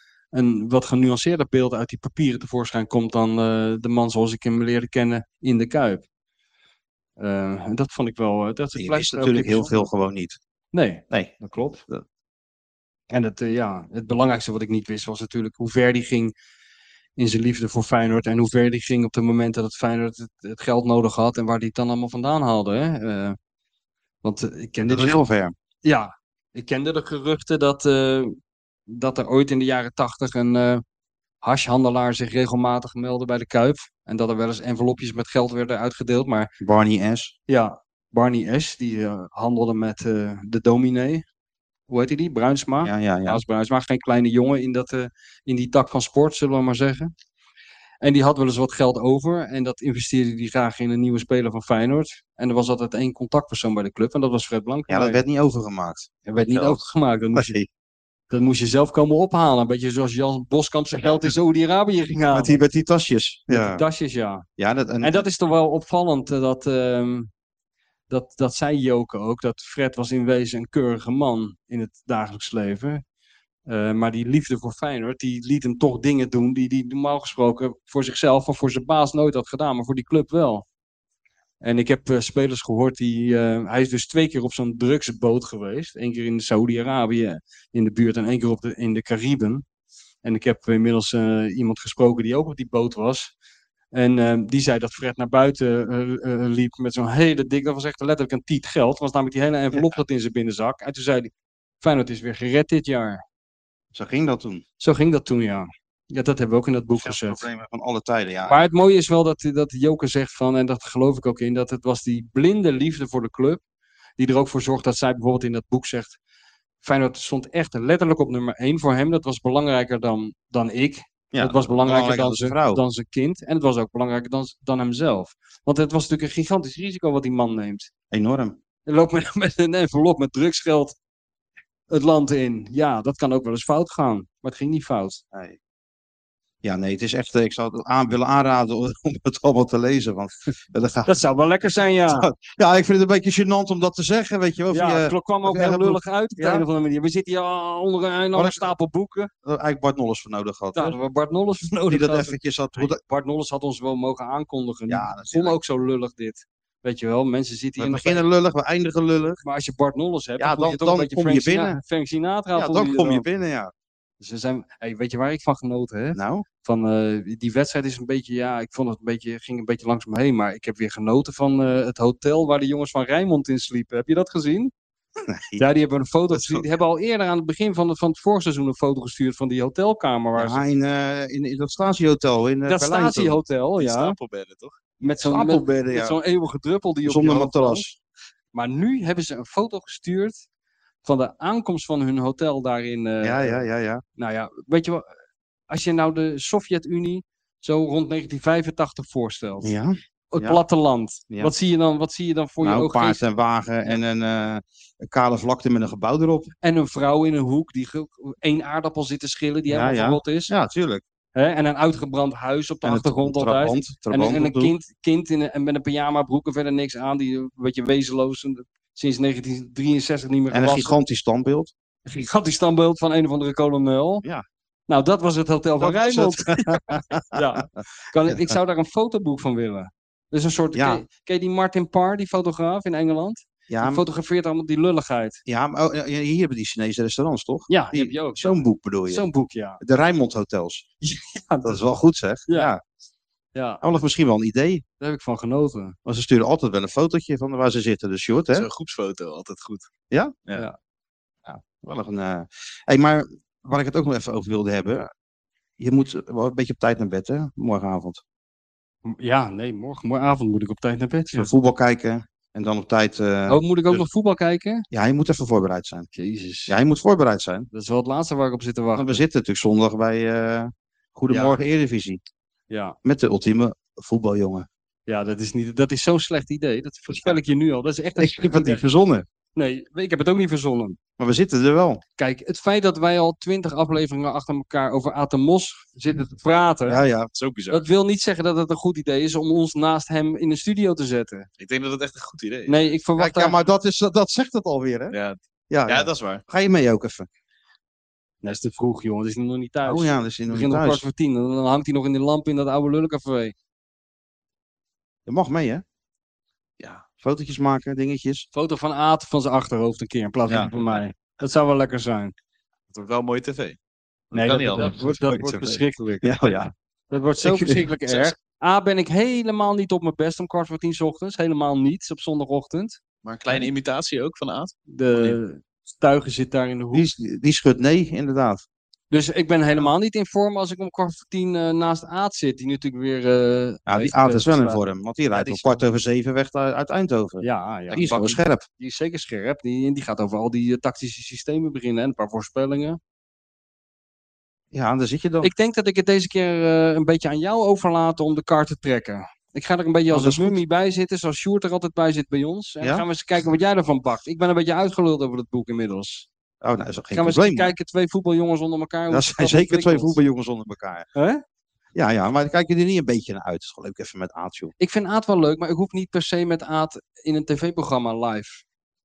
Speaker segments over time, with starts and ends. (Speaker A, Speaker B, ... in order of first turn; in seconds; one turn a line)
Speaker A: 0.3-6.0
Speaker A: 7.2-9.9
Speaker B: 8.8-10.4
Speaker A: 10.7-11.8
Speaker B: 11.1-11.4
Speaker A: 13.1-16.3
Speaker A: 17.2-23.4
Speaker A: 24.2-25.2
Speaker B: 24.9-25.5
Speaker A: 25.8-28.4
Speaker A: 28.9-30.8
Speaker A: 31.4-36.5
Speaker B: 36.6-37.3
Speaker A: 37.5-41.2
Speaker A: 41.9-47.1
Speaker B: 42.8-43.4
Speaker A: 48.0-55.2
Speaker B: 54.9-56.8
Speaker A: 56.3-57.6
Speaker B: 57.4-57.7
Speaker A: 58.3-62.6
Speaker B: 62.3-63.8
Speaker A: 63.5-64.5
Speaker B: 64.6-65.2
Speaker A: 65.0-67.3
Speaker A: 68.1-73.0
Speaker A: 73.7-80.7
Speaker A: 81.6-89.6
Speaker A: 90.2-93.3
Speaker A: 93.9-103.2
Speaker B: 103.9-104.6
Speaker A: 104.8-107.4
Speaker B: 107.0-108.6
Speaker A: 108.5-113.6
Speaker A: 114.2-116.2
Speaker A: 116.8-127.9
Speaker B: 121.3-122.8
Speaker B: 128.1-128.6
Speaker A: 128.9-131.0
Speaker A: 131.9-135.2
Speaker B: 135.3-135.6
Speaker B: 136.6-141.1
Speaker A: 141.1-142.3
Speaker B: 142.1-146.7
Speaker A: 144.7-149.3
Speaker B: 148.3-148.7
Speaker B: 149.4-151.0
Speaker A: 150.8-158.2
Speaker B: 151.9-153.0
Speaker B: 154.9-155.6
Speaker B: 157.8-159.4
Speaker A: 159.4-163.3
Speaker B: 160.4-161.8
Speaker B: 162.6-163.7
Speaker A: 164.2-174.7
Speaker B: 166.2-166.4
Speaker B: 175.3-175.7
Speaker A: 175.6-180.6
Speaker B: 176.3-176.7
Speaker B: 180.4-183.4
Speaker A: 182.7-184.2
Speaker C: 183.8-184.8
Speaker A: 185.0-187.9
Speaker B: 185.1-186.2
Speaker B: 187.1-188.0
Speaker A: 188.5-190.4
Speaker A: 191.0-193.6
Speaker B: 193.2-194.0
Speaker A: 194.2-195.1
Speaker A: 195.7-199.7
Speaker B: 199.6-200.6
Speaker A: 200.3-203.2
Speaker B: 202.6-206.5
Speaker A: 206.6-210.5
Speaker B: 209.7-211.0
Speaker A: 211.3-221.0
Speaker B: 212.8-214.7
Speaker B: 220.5-221.7
Speaker A: 222.1-224.2
Speaker A: 224.9-235.4
Speaker B: 225.8-227.7
Speaker B: 228.3-228.6
Speaker B: 230.7-231.0
Speaker B: 233.7-234.0
Speaker B: 235.5-239.3
Speaker A: 237.7-239.8
Speaker B: 239.8-240.9
Speaker A: 241.0-241.8
Speaker B: 241.6-242.8
Speaker A: 243.6-243.8
Speaker B: 243.8-244.8
Speaker A: 245.0-246.0
Speaker B: 246.1-248.7
Speaker C: 248.5-249.9
Speaker B: 251.5-255.1
Speaker B: 255.8-258.2
Speaker A: 259.1-261.5
Speaker B: 261.3-264.1
Speaker A: 263.5-264.9
Speaker B: 264.9-266.1
Speaker A: 266.1-266.8
Speaker B: 266.7-267.7
Speaker A: 267.7-269.2
Speaker B: 269.0-272.2
Speaker A: 271.3-271.6
Speaker A: 272.7-273.0
Speaker B: 273.0-274.7
Speaker A: 275.1-278.8
Speaker B: 278.2-279.2
Speaker A: 279.6-281.0
Speaker B: 281.2-282.0
Speaker A: 282.2-287.0
Speaker B: 286.9-287.3
Speaker C: 287.4-287.8
Speaker A: 287.7-291.5
Speaker C: 291.6-292.8
Speaker A: 292.7-293.6
Speaker B: 293.2-295.2
Speaker C: 295.1-296.4
Speaker B: 295.7-297.3
Speaker A: 298.4-303.5
Speaker B: 299.9-301.0
Speaker B: 305.3-305.8
Speaker B: 307.2-308.5
Speaker A: 308.5-312.3
Speaker C: 312.9-313.8
Speaker C: 314.3-315.2
Speaker A: 314.3-316.4
Speaker B: 314.8-316.7
Speaker A: 317.1-323.0
Speaker B: 317.4-317.9
Speaker C: 323.2-325.4
Speaker A: 324.9-327.1
Speaker B: 326.9-328.6
Speaker A: 329.1-334.8
Speaker B: 333.9-338.6
Speaker A: 335.3-335.8
Speaker A: 337.4-343.0
Speaker B: 344.7-345.5
Speaker A: 345.4-356.3
Speaker B: 350.1-350.6
Speaker B: 356.6-357.8
Speaker A: 357.1-360.2
Speaker B: 359.1-361.1
Speaker A: 361.1-361.4
Speaker B: 361.9-364.7
Speaker A: 364.8-368.6